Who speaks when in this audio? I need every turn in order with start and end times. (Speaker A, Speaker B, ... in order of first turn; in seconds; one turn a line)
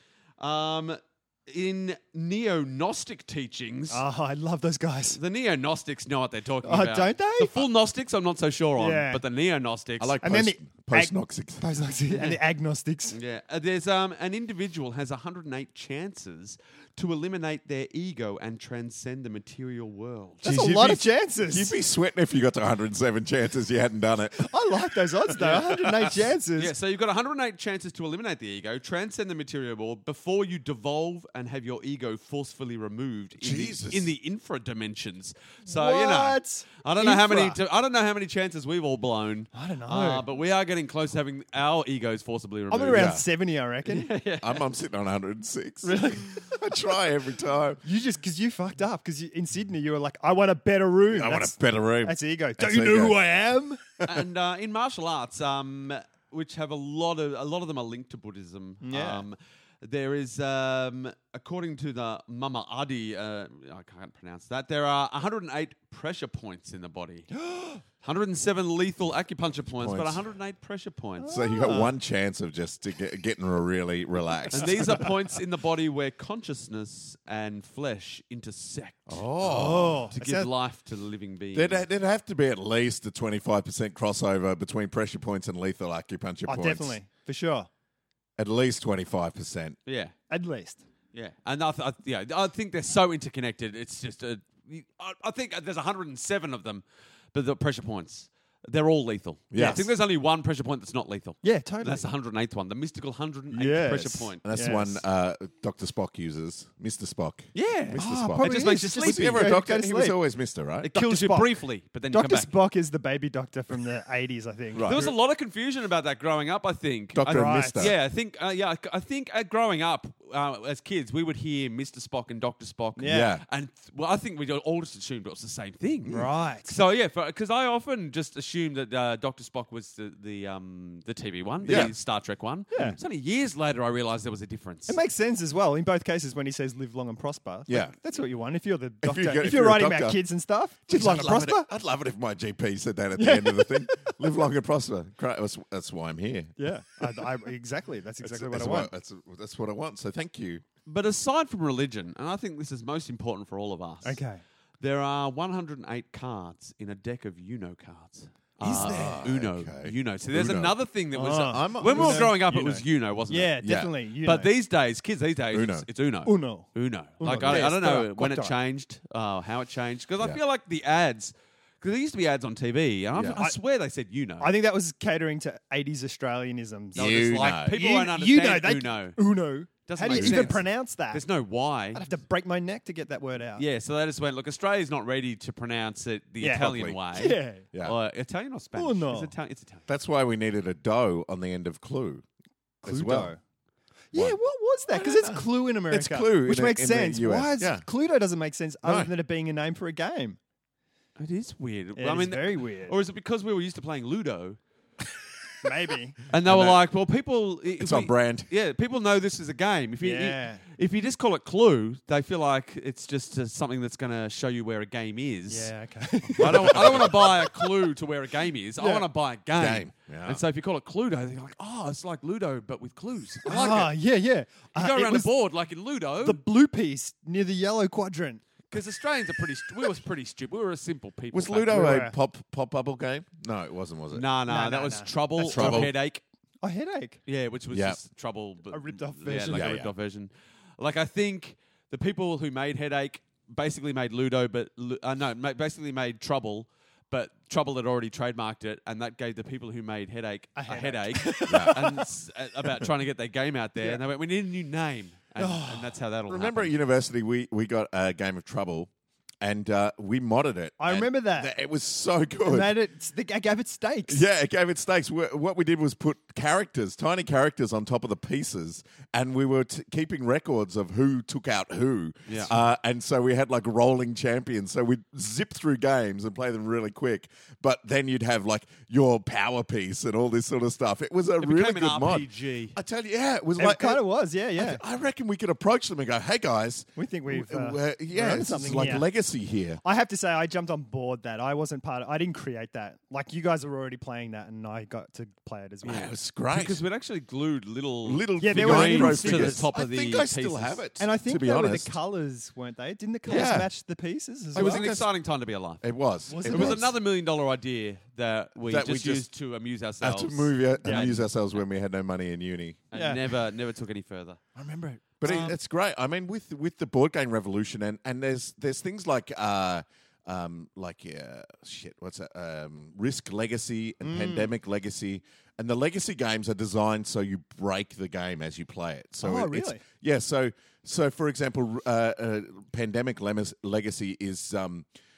Speaker A: 0.4-4.0
Speaker B: 3.9-5.2
Speaker A: 5.1-10.2
Speaker B: 6.6-7.7
Speaker B: 8.8-9.2
Speaker C: 10.0-11.7
Speaker B: 10.2-13.2
Speaker A: 12.1-12.4
Speaker A: 13.1-20.5
Speaker B: 20.4-21.7
Speaker C: 20.4-24.5
Speaker B: 24.3-26.7
Speaker A: 25.4-25.9
Speaker A: 26.6-43.1
Speaker C: 33.4-34.1
Speaker B: 35.6-37.6
Speaker B: 39.5-40.2
Speaker B: 42.7-44.1
Speaker C: 42.9-43.2
Speaker A: 43.8-44.6
Speaker C: 44.4-47.8
Speaker B: 45.8-46.4
Speaker B: 47.8-53.8
Speaker C: 51.1-53.2
Speaker A: 54.0-67.3
Speaker B: 58.8-59.2
Speaker B: 67.3-67.8
Speaker A: 68.0-71.4
Speaker C: 69.7-70.2
Speaker B: 71.2-71.9
Speaker C: 71.2-75.0
Speaker A: 74.5-79.2
Speaker C: 79.1-80.1
Speaker B: 79.4-80.5
Speaker A: 80.1-81.8
Speaker C: 81.5-87.0
Speaker B: 86.5-87.7
Speaker C: 88.4-89.8
Speaker A: 89.8-90.1
Speaker B: 90.3-90.8
Speaker A: 91.1-104.4
Speaker C: 99.5-99.8
Speaker B: 99.5-99.8
Speaker B: 101.4-102.1
Speaker B: 103.5-105.0
Speaker C: 104.4-110.9
Speaker A: 107.5-109.6
Speaker B: 108.0-110.2
Speaker A: 110.8-112.5
Speaker B: 110.9-111.5
Speaker B: 112.1-115.0
Speaker C: 114.7-115.1
Speaker A: 114.8-135.0
Speaker C: 117.1-117.9
Speaker B: 117.3-117.9
Speaker B: 123.0-123.3
Speaker C: 123.1-123.4
Speaker B: 126.1-126.7
Speaker C: 131.6-131.9
Speaker B: 132.7-133.0
Speaker B: 134.9-141.7
Speaker C: 137.7-137.9
Speaker C: 139.0-140.2
Speaker C: 140.9-146.6
Speaker B: 143.2-144.2
Speaker B: 146.6-148.9
Speaker C: 148.2-150.6
Speaker A: 150.8-154.2
Speaker B: 154.0-154.4
Speaker A: 154.8-174.5
Speaker B: 158.6-159.3
Speaker C: 158.6-160.8
Speaker B: 161.1-164.5
Speaker C: 161.4-162.3
Speaker C: 163.6-163.9
Speaker C: 165.5-165.8
Speaker B: 166.2-168.6
Speaker C: 167.2-167.7
Speaker C: 173.1-173.4
Speaker B: 174.4-181.2
Speaker C: 176.9-177.8
Speaker A: 176.9-179.2
Speaker A: 179.8-182.1
Speaker C: 180.1-180.6
Speaker B: 181.9-183.6
Speaker A: 183.6-189.8
Speaker B: 186.4-187.7
Speaker C: 186.5-187.0
Speaker B: 188.7-189.3
Speaker C: 189.9-192.2
Speaker B: 192.8-193.4
Speaker C: 192.8-193.3
Speaker B: 194.1-200.4
Speaker C: 194.9-197.8
Speaker C: 198.8-199.1
Speaker A: 201.2-204.6
Speaker B: 201.9-202.9
Speaker B: 205.6-206.2
Speaker A: 206.3-215.7
Speaker C: 206.4-206.8
Speaker C: 207.8-208.5
Speaker B: 210.0-210.6
Speaker B: 215.5-217.7
Speaker A: 216.2-223.9
Speaker C: 216.4-217.1
Speaker B: 218.8-219.1
Speaker C: 219.5-220.4
Speaker B: 223.4-225.3
Speaker A: 224.7-226.4
Speaker B: 226.2-228.7
Speaker A: 228.7-232.0
Speaker C: 231.3-234.2
Speaker B: 231.7-232.1
Speaker A: 234.1-236.2
Speaker B: 234.5-235.9
Speaker C: 235.4-235.9
Speaker B: 236.6-237.2
Speaker A: 237.2-256.7
Speaker C: 237.7-238.0
Speaker B: 238.7-239.8
Speaker C: 239.5-239.9
Speaker B: 250.6-252.1
Speaker C: 251.5-251.8
Speaker B: 255.4-256.0
Speaker C: 256.3-258.9
Speaker C: 259.4-262.7
Speaker B: 260.8-261.5
Speaker B: 262.4-264.2
Speaker C: 264.1-284.0
Speaker A: 281.4-282.8
Speaker B: 283.6-284.8
Speaker C: 284.5-289.8
Speaker B: 286.9-289.1
Speaker B: 289.8-296.1
Speaker C: 295.8-296.8
Speaker A: 295.9-300.8
Speaker C: 298.1-301.9
Speaker B: 298.4-299.6
Speaker B: 301.0-304.9
Speaker C: 303.3-303.7
Speaker A: 303.3-303.6
Speaker C: 304.5-305.1
Speaker A: 304.5-305.9
Speaker C: 305.8-306.9
Speaker B: 306.3-306.9
Speaker A: 306.4-311.2
Speaker C: 308.7-309.3
Speaker C: 310.0-312.8
Speaker B: 310.8-311.1
Speaker A: 312.9-314.4
Speaker B: 312.9-313.2
Speaker B: 314.6-315.5
Speaker C: 315.2-334.9
Speaker A: 315.2-315.6
Speaker B: 324.0-324.5
Speaker B: 329.2-329.8